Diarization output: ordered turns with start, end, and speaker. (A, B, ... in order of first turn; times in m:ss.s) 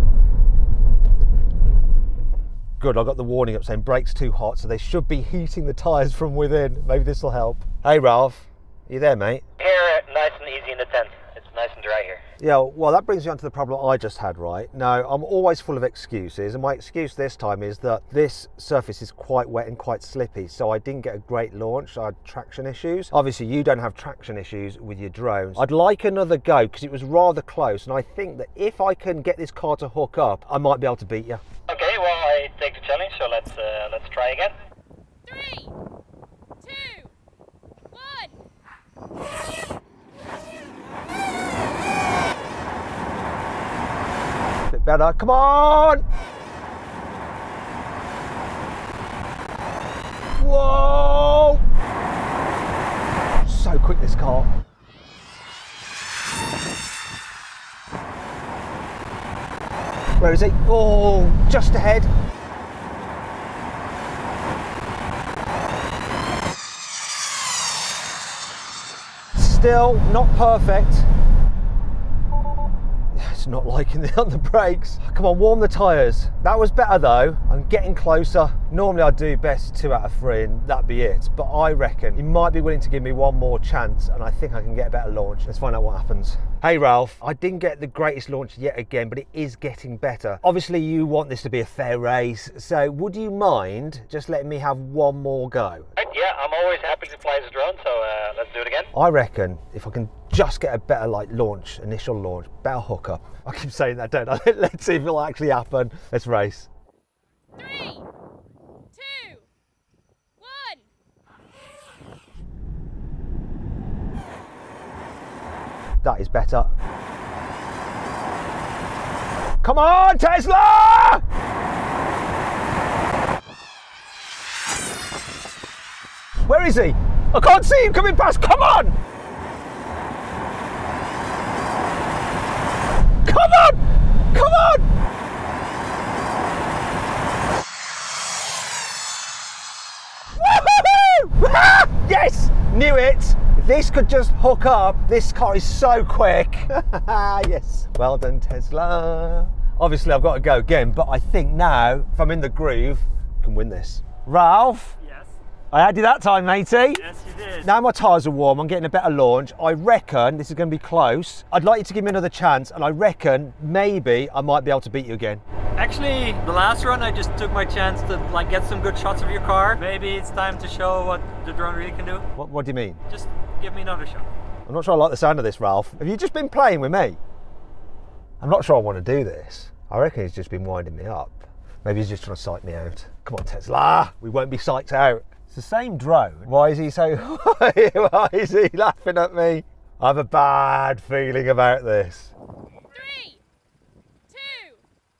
0:02.8-0:09.4 A
0:09.6-0:12.2 B
0:12.4-0:31.4 A
0:31.7-0:34.6 B
0:35.3-0:35.7 C
0:36.6-0:37.1 C
0:37.9-0:38.3 C
0:44.7-0:46.0 A
0:50.4-0:51.6 A
0:53.4-0:54.5 A
1:00.2-1:02.1 A
1:09.3-1:11.1 A
1:13.1-1:35.9 A
1:36.0-1:38.9 B
1:38.9-1:46.7 A
1:47.6-1:48.0 C
1:48.9-1:49.5 C
1:50.4-1:50.9 C
1:56.0-1:56.7 A
1:59.6-2:01.2 A
2:06.5-2:09.0 A
2:13.2-2:14.9 A
2:20.4-2:35.0 A
2:35.0-2:35.3 D
2:35.7-2:37.0 A
2:36.9-2:37.7 D
2:37.6-2:45.4 A
2:45.8-2:52.3 D
2:52.4-2:53.0 A
2:53.1-2:54.3 D
2:54.7-2:57.2 A
2:58.4-3:12.3 A
3:13.0-3:13.4 C
3:14.3-3:14.8 C